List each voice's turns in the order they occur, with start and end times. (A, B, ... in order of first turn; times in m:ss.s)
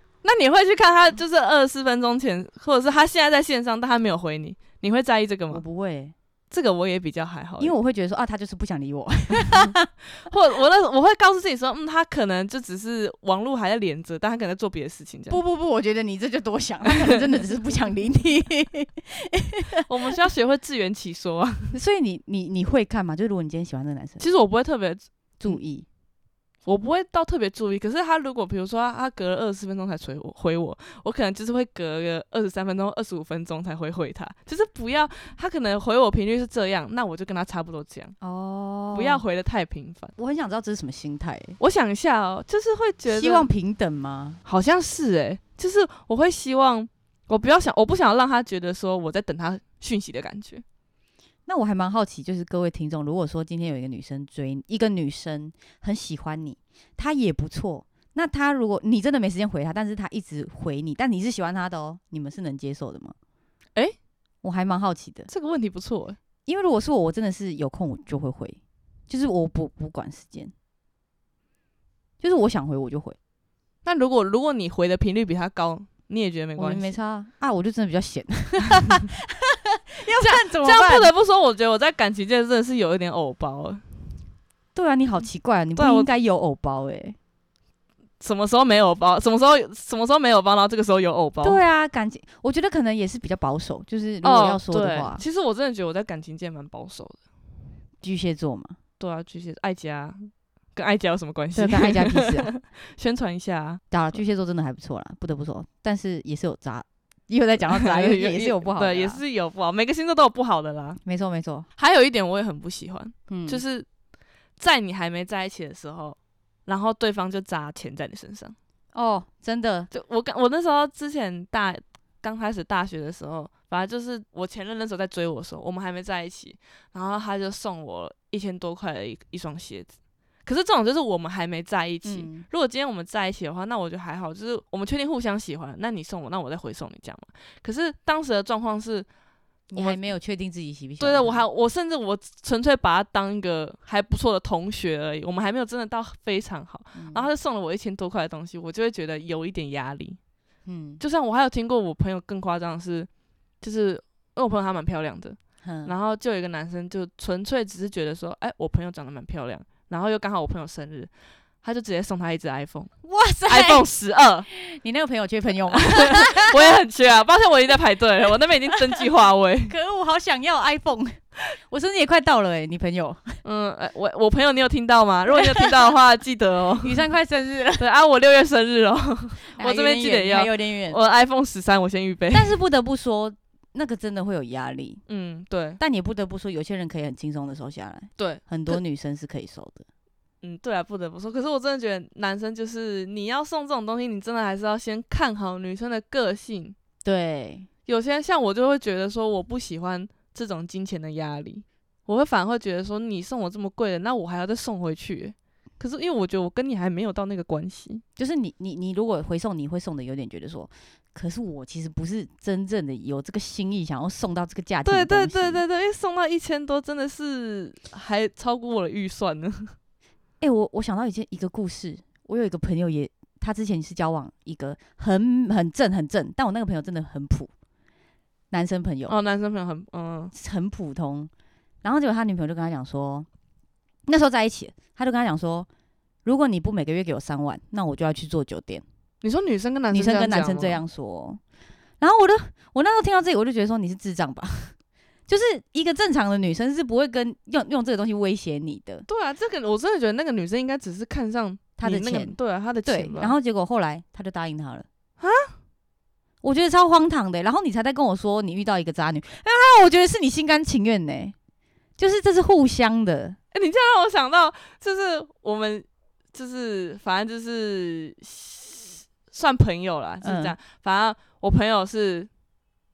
0:00.2-0:05.6 A
0:05.5-0:06.1 B
0:06.5-0:07.8 A
0:07.6-0:09.9 B
0:10.3-0:15.4 A
0:15.3-0:19.9 B
0:19.9-0:21.8 A
0:21.7-0:24.2 B
0:24.2-0:25.6 A
0:25.4-0:25.9 B
0:26.7-0:38.2 A
0:38.2-0:39.2 B
0:38.9-0:40.1 A
0:40.2-0:41.6 B
0:41.6-0:43.5 A
0:43.1-0:44.4 B
0:44.5-0:50.6 A
0:51.5-1:03.2 B
1:04.4-1:05.3 B
1:05.3-1:06.2 A
1:06.5-1:10.5 B
1:12.2-1:13.2 B
1:13.8-1:16.9 A
1:16.6-1:21.1 B
1:20.2-1:23.8 A
1:24.8-1:27.2 B
1:25.8-1:26.1 A
1:28.2-1:31.6 A
1:31.4-1:35.2 B
1:34.2-1:37.2 A
1:38.0-1:38.8 B
1:39.0-1:43.8 A
1:41.6-1:42.5 B
1:43.9-1:49.2 B
1:47.8-1:51.0 A
1:51.0-1:51.7 B
1:51.8-1:53.9 A
1:53.3-1:53.6 B
1:54.6-1:58.6 A
1:58.9-1:59.9 B
1:59.9-2:09.9 A
2:10.4-2:19.1 A
2:12.0-2:12.5 B
2:19.7-2:21.4 B
2:19.8-2:20.0 A
2:21.0-2:30.2 A
2:27.0-2:27.3 B
2:30.7-2:31.0 B
2:31.0-2:33.1 A
2:33.6-2:41.1 A
2:35.6-2:35.9 B
2:41.6-2:42.9 A
2:43.0-2:43.8 B
2:43.5-2:44.5 A
2:44.5-2:46.8 B
2:45.7-2:49.7 A
2:49.7-2:53.4 B
2:53.4-2:57.0 A
2:55.4-2:55.7 B
2:56.8-2:57.8 B
2:57.8-3:02.5 A
2:59.5-3:01.0 B
3:02.3-3:05.0 B
3:05.1-3:05.8 A
3:05.8-3:09.8 B
3:08.2-3:08.8 A
3:10.4-3:16.8 A
3:17.0-3:17.7 B
3:17.9-3:28.0 A
3:28.2-3:35.6 B
3:34.8-3:39.7 A
3:40.4-3:47.5 B
3:48.5-3:49.2 B
3:49.1-3:50.3 A
3:50.3-3:51.3 B
3:51.8-3:53.3 B
3:54.1-3:55.7 B
3:56.2-3:58.8 B
3:59.2-4:00.8 A
3:59.9-4:01.4 B
4:02.0-4:04.8 B
4:05.3-4:09.1 B
4:09.1-4:13.4 A
4:11.8-4:14.9 B
4:15.2-4:15.5 A
4:16.4-4:21.4 B
4:22.0-4:23.4 B
4:23.5-4:32.3 A
4:30.2-4:30.6 B